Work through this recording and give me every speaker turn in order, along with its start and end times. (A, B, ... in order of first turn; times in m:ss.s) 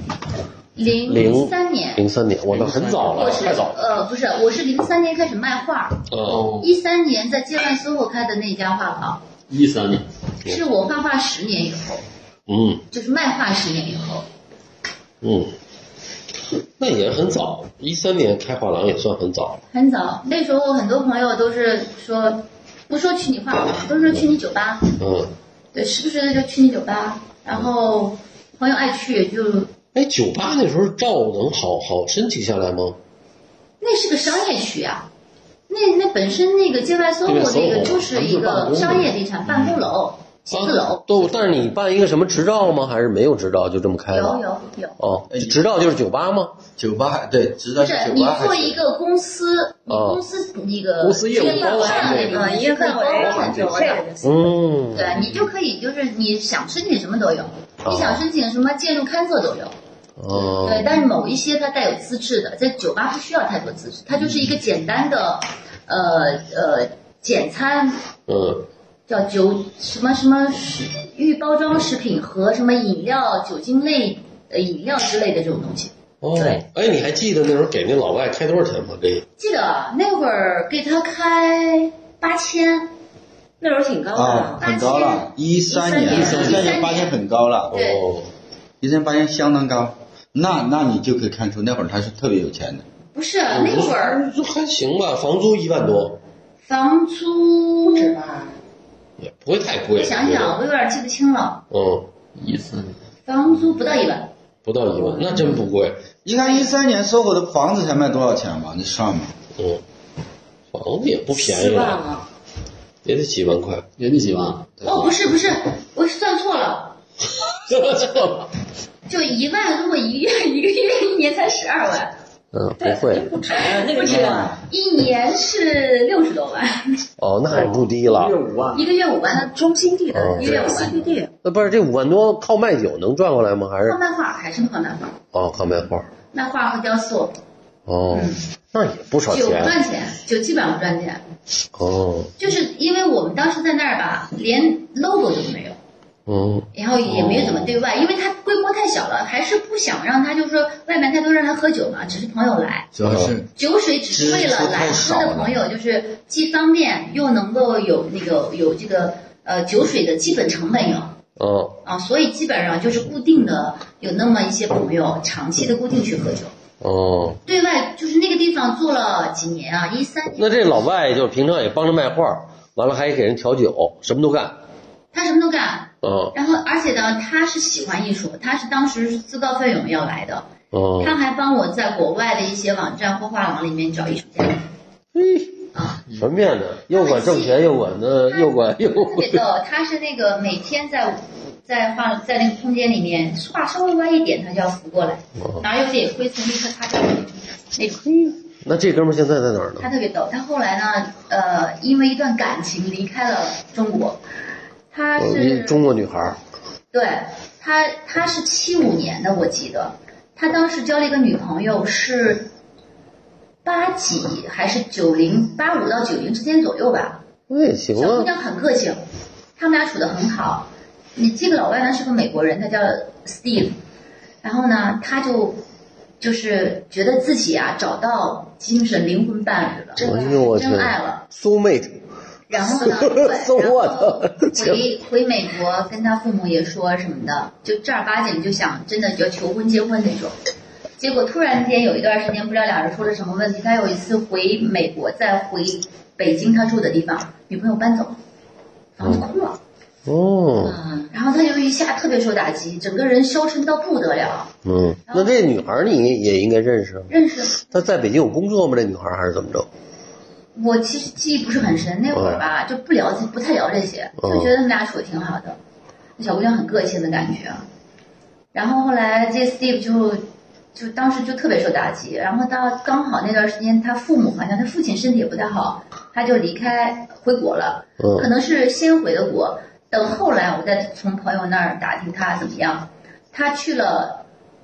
0:00.8-0:02.0 A
0:01.1-0:03.6 B
0:02.5-0:04.0 C
0:03.1-0:09.2 A
0:06.1-0:06.6 B
0:06.2-0:06.7 C
0:09.5-0:10.0 C
0:10.4-0:12.0 A
0:12.5-0:12.8 B
0:12.9-0:14.2 A
0:15.2-0:15.5 B
0:16.8-0:19.6 B
0:19.7-0:25.0 A
0:25.0-0:25.3 B
0:25.7-0:29.7 A
0:29.9-0:33.0 B
0:33.8-0:35.1 A
0:35.7-0:41.4 A
0:37.3-0:39.1 B
0:40.5-0:44.4 B
0:44.1-0:45.0 A
0:45.0-0:46.6 B
0:45.3-0:45.6 D
0:46.8-0:48.8 D
0:47.8-0:54.0 A
0:49.9-0:50.2 B
0:51.0-0:52.6 C
0:51.4-0:54.6 E
0:53.2-0:53.7 C
0:54.2-0:55.2 B
0:54.9-0:59.7 A
0:55.1-0:55.4 C
0:57.8-0:58.2 B
1:00.2-1:01.0 B
1:00.3-1:08.0 A
1:08.3-1:08.6 B
1:09.1-1:16.6 A
1:16.2-1:19.2 B
1:19.4-1:22.9 A
1:23.6-1:25.1 E
1:24.1-1:27.8 D
1:24.6-1:25.3 A
1:25.7-1:26.8 E
1:26.1-1:27.2 A
1:26.2-1:26.5 C
1:27.7-1:28.0 A
1:27.7-1:28.3 B
1:28.8-1:32.8 D
1:33.1-1:34.2 A
1:33.5-1:36.2 B
1:36.6-1:38.2 A
1:37.9-1:38.6 E
1:39.2-1:40.6 B
1:39.9-1:41.6 A
1:41.7-1:42.1 B
1:42.4-1:43.0 C
1:43.2-1:44.3 A
1:44.6-1:46.0 B
1:46.2-1:49.3 D
1:46.3-1:46.7 A
1:50.7-1:52.0 B
1:51.3-1:52.3 E
1:53.0-1:53.8 B
1:54.0-1:55.0 C
1:54.8-1:57.0 A
1:57.9-1:58.2 B
1:59.1-2:02.1 A
2:02.5-2:03.3 B
2:02.8-2:04.6 E
2:03.5-2:06.9 A
2:04.0-2:04.6 D
2:07.2-2:08.4 B
2:07.5-2:08.9 C
2:08.7-2:09.5 A
2:09.3-2:11.3 E
2:10.1-2:10.7 B
2:10.4-2:11.0 A
2:10.6-2:11.0 C
2:11.4-2:14.0 B
2:13.8-2:15.2 A
2:15.3-2:16.1 B
2:16.3-2:17.4 A
2:17.9-2:19.8 B
2:18.1-2:18.4 A
2:19.3-2:21.2 A
2:21.7-2:22.3 B
2:22.4-2:25.8 A
2:26.3-2:27.8 B
2:26.7-2:32.9 A
2:32.9-2:33.5 D
2:33.1-2:33.3 B
2:33.6-2:41.2 A
2:34.1-2:35.6 D
2:41.4-2:41.8 B
2:41.8-2:46.5 A
2:46.8-2:47.4 B
2:47.4-2:50.8 A
2:50.4-2:54.5 B
2:55.1-3:00.5 A
2:56.0-2:56.3 B
3:00.7-3:01.1 B
3:01.0-3:04.6 A
3:05.1-3:09.4 B
3:05.7-3:06.0 A
3:06.9-3:18.3 A
3:18.0-3:19.9 B
3:19.8-3:24.2 A
3:24.9-3:25.9 A
3:25.2-3:26.4 B
3:26.9-3:32.5 A
3:33.6-3:37.2 A
3:37.5-3:38.3 B
3:38.0-3:39.0 A
3:39.6-3:43.8 A
3:44.4-3:45.6 A
3:46.2-3:51.2 A
3:50.0-3:50.4 E
3:50.0-3:52.0 B
3:52.5-4:00.3 A
3:52.6-3:54.8 B
4:01.0-4:08.2 A
4:09.0-4:09.6 A
4:10.0-4:10.8 B
4:10.6-4:11.1 E
4:11.1-4:14.5 A
4:14.6-4:19.7 B
4:15.1-4:15.6 A
4:17.1-4:17.8 A
4:20.5-4:25.6 A
4:22.1-4:22.4 B
4:24.2-4:24.5 B
4:26.2-4:27.6 A
4:28.5-4:44.2 A
4:38.0-4:38.3 B